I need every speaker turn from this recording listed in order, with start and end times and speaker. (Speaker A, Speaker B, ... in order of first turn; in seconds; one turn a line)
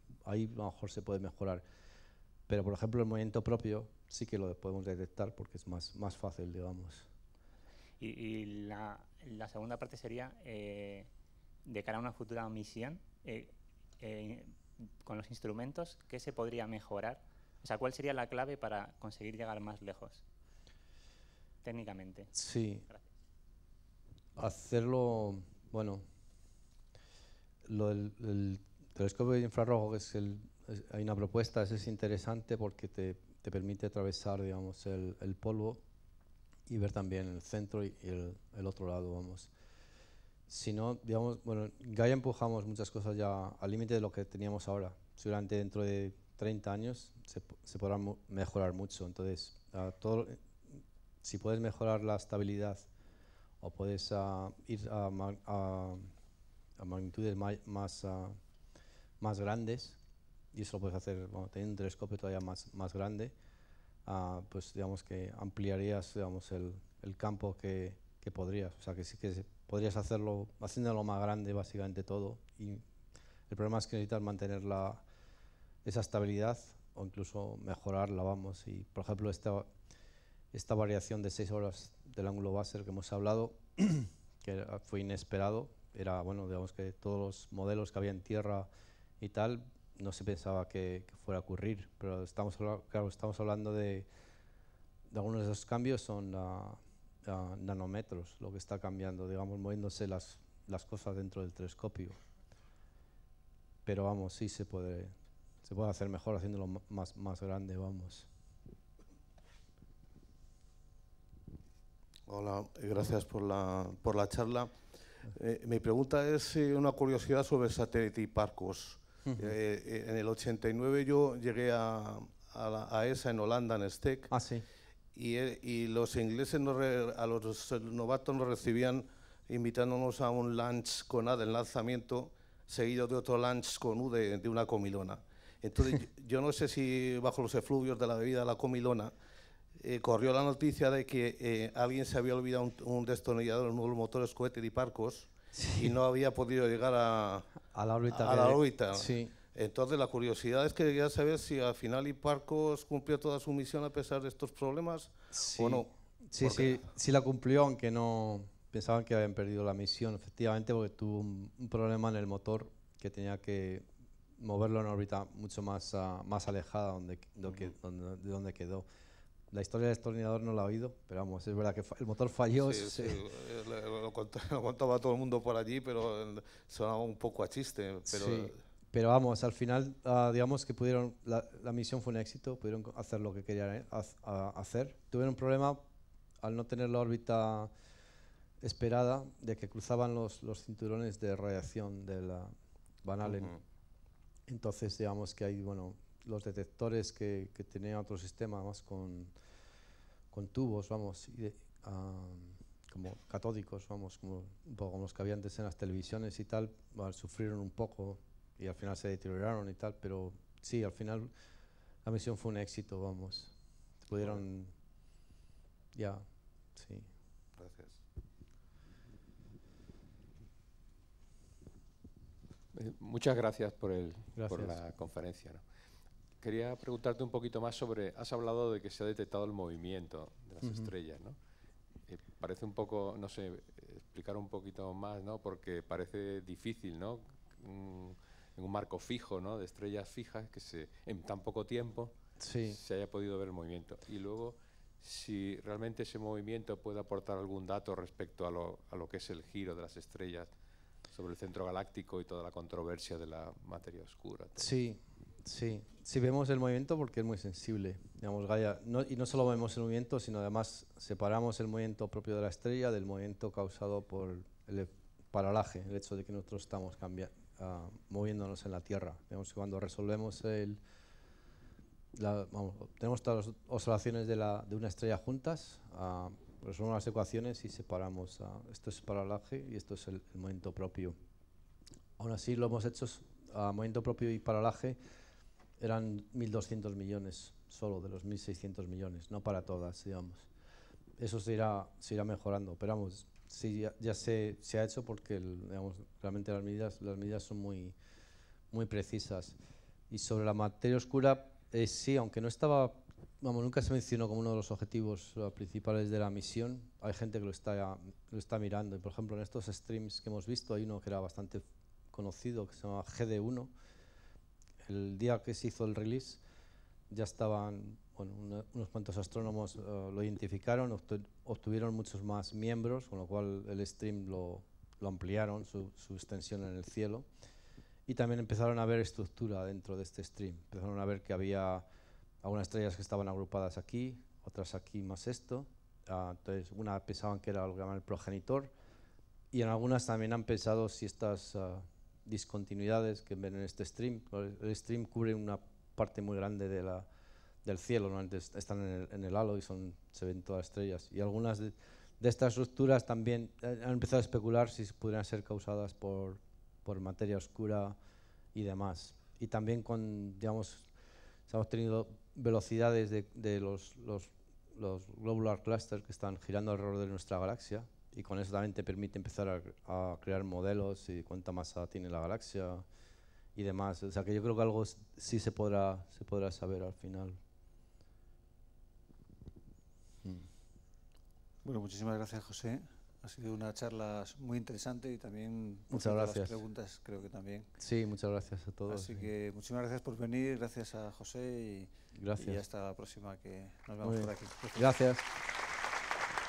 Speaker A: 0.3-1.6
Speaker A: 2.5-7.1
Speaker B: 8.0-11.1
Speaker B: 11.7-20.2
Speaker B: 21.6-22.3
Speaker A: 22.3-22.9
Speaker A: 24.4-26.0
Speaker A: 27.6-35.8
Speaker A: 36.7-39.5
Speaker A: 40.5-52.9
Speaker A: 53.6-56.1
Speaker A: 56.8-58.4
Speaker A: 59.2-60.0
Speaker A: 60.5-63.3
Speaker A: 64.1-72.8
Speaker A: 73.5-75.0
Speaker A: 75.8-79.7
Speaker A: 80.5-88.7
Speaker A: 89.2-94.1
Speaker A: 95.1-102.2
Speaker A: 103.8-108.3
Speaker C: 112.3-124.3
Speaker A: 119.2-119.5
Speaker A: 124.3-124.7
Speaker C: 125.1-139.1
Speaker C: 139.8-147.5
Speaker A: 145.5-145.9
Speaker A: 147.7-149.3
Speaker C: 148.1-156.9
Speaker A: 155.3-163.9
Speaker A: 164.4-168.9
Speaker A: 169.5-173.2
Speaker C: 172.5-178.6
Speaker A: 178.1-185.8
Speaker A: 186.4-187.7
Speaker A: 188.6-193.6
Speaker A: 194.5-199.3
Speaker A: 200.3-211.3
Speaker A: 212.1-214.7
Speaker A: 215.9-217.1
Speaker C: 217.6-218.0
Speaker D: 222.7-225.7
Speaker A: 224.4-224.8
Speaker D: 226.4-231.4
Speaker A: 230.6-230.9
Speaker D: 232.1-250.5
Speaker A: 242.4-242.8
Speaker D: 251.1-254.7
Speaker A: 254.6-270.8
Speaker A: 272.1-281.2
Speaker A: 282.2-285.0
Speaker A: 285.8-290.5
Speaker A: 291.2-297.9
Speaker A: 298.7-299.6
Speaker A: 300.1-313.7
Speaker A: 314.9-316.4
Speaker A: 317.1-327.3
Speaker A: 328.1-331.9
Speaker A: 332.4-338.7
Speaker A: 339.5-347.1
Speaker A: 347.6-358.0
Speaker A: 358.6-360.9
Speaker A: 361.5-372.9
Speaker A: 373.6-377.4
Speaker E: 381.6-387.7
Speaker A: 385.9-386.6
Speaker A: 387.8-389.3
Speaker E: 388.9-394.9
Speaker A: 392.1-392.6
Speaker A: 394.0-395.3